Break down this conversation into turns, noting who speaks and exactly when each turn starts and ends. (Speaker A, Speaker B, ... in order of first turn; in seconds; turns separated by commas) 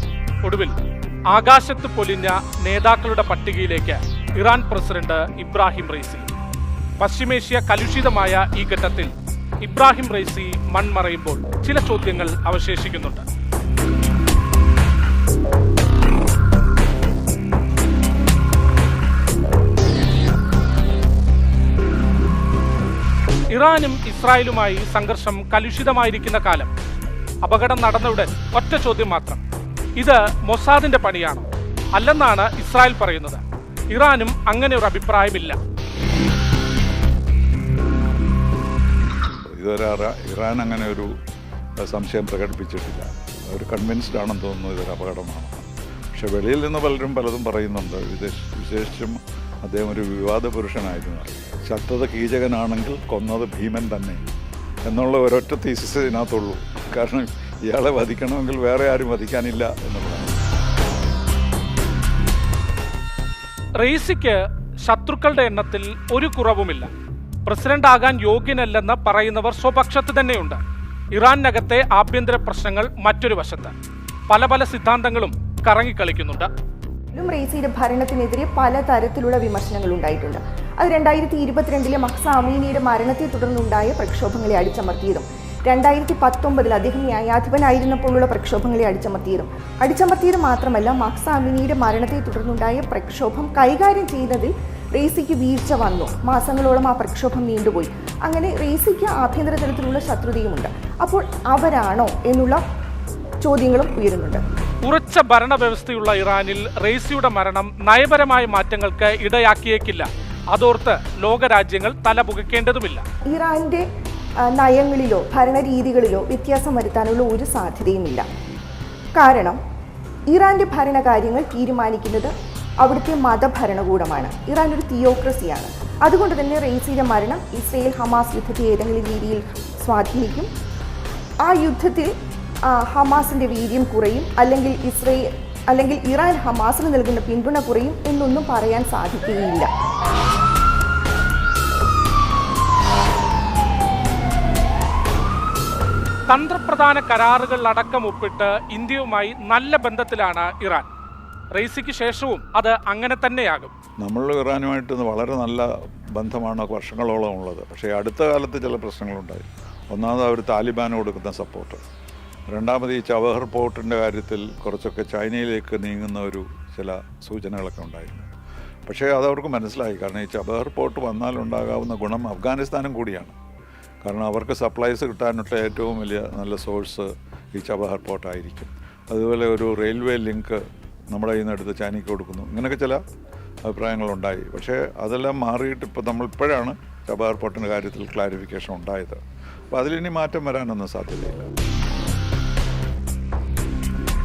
Speaker A: 0.4-0.7, Speaker A: 1.3-6.3, Speaker A: 7.0-13.2, Speaker A: 23.5-26.7, Speaker A: 27.4-29.4, Speaker A: 30.0-35.6, Speaker B: 39.5-41.1, Speaker B: 41.8-54.2, Speaker B: 54.9-60.3, Speaker A: 63.8-66.9, Speaker A: 67.4-70.6, Speaker A: 71.1-73.7, Speaker A: 74.3-76.5, Speaker C: 77.1-102.6, Speaker C: 103.4-104.4, Speaker A: 104.8-113.0, Speaker C: 113.3-113.9, Speaker C: 114.5-118.3, Speaker C: 119.2-119.6, Speaker C: 120.3-130.5, Speaker C: 131.4-132.1, Speaker C: 132.7-139.7, Speaker A: 146.3-150.9, Speaker A: 151.5-153.7, Speaker B: 154.0-161.8, Speaker B: 162.5-168.3, Speaker B: 168.9-173.4, Speaker B: 174.0-183.0, Speaker B: 183.7-189.2, Speaker B: 189.7-191.5